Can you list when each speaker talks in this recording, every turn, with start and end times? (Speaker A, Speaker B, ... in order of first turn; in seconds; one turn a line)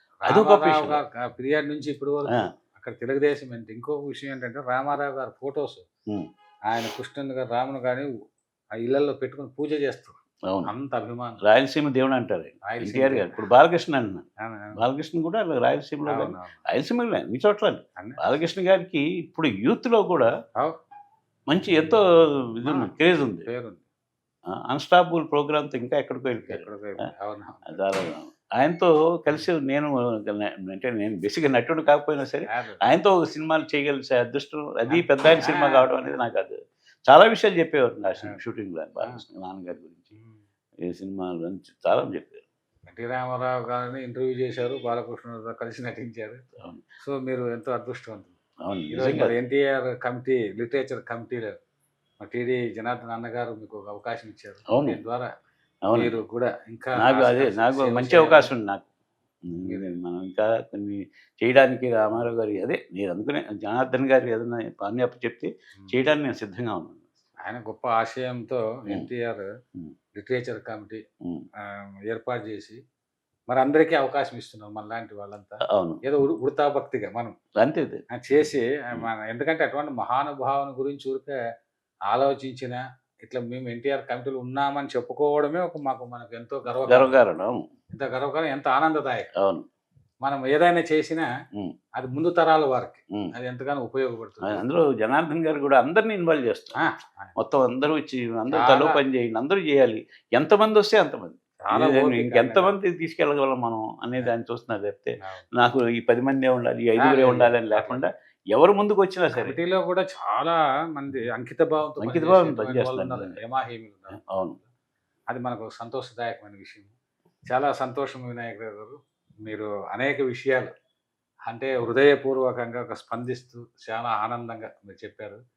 Speaker A: 0.2-5.8
Speaker B: 0.3-1.0
Speaker A: 6.7-8.1
Speaker A: 8.8-11.4
Speaker B: 11.4-20.3
Speaker A: 12.7-13.4
Speaker A: 14.4-14.8
Speaker A: 16.1-16.6
Speaker B: 21.5-23.5
Speaker A: 21.6-22.0
Speaker A: 22.6-23.9
Speaker B: 24.5-26.6
Speaker A: 26.4-27.8
Speaker B: 27.7-36.6
Speaker A: 32.5-32.8
Speaker A: 34.9-35.9
Speaker B: 37.1-40.1
Speaker A: 40.1-40.4
Speaker B: 40.8-42.4
Speaker A: 42.9-46.4
Speaker B: 46.6-46.9
Speaker A: 47.0-48.4
Speaker B: 48.6-49.4
Speaker A: 48.9-51.5
Speaker A: 52.2-55.3
Speaker B: 54.7-55.0
Speaker B: 55.9-56.1
Speaker A: 55.9-58.5
Speaker B: 57.0-58.8
Speaker B: 59.4-67.1
Speaker A: 67.4-69.5
Speaker A: 70.2-71.0
Speaker A: 71.6-72.8
Speaker A: 73.5-77.3
Speaker B: 75.7-76.0
Speaker B: 77.6-78.0
Speaker A: 78.1-81.3
Speaker A: 82.1-87.2
Speaker B: 86.9-87.6
Speaker A: 87.9-89.3
Speaker B: 89.4-89.6
Speaker A: 90.2-91.3
Speaker A: 92.0-94.6
Speaker B: 94.4-96.8
Speaker A: 96.8-97.3
Speaker B: 97.3-109.6
Speaker A: 98.5-99.0
Speaker A: 101.7-102.7
Speaker A: 105.2-105.5
Speaker A: 107.0-108.0
Speaker A: 109.3-114.6
Speaker B: 112.0-113.4
Speaker B: 114.1-114.6
Speaker A: 115.3-117.0
Speaker A: 117.5-120.7
Speaker A: 121.5-125.4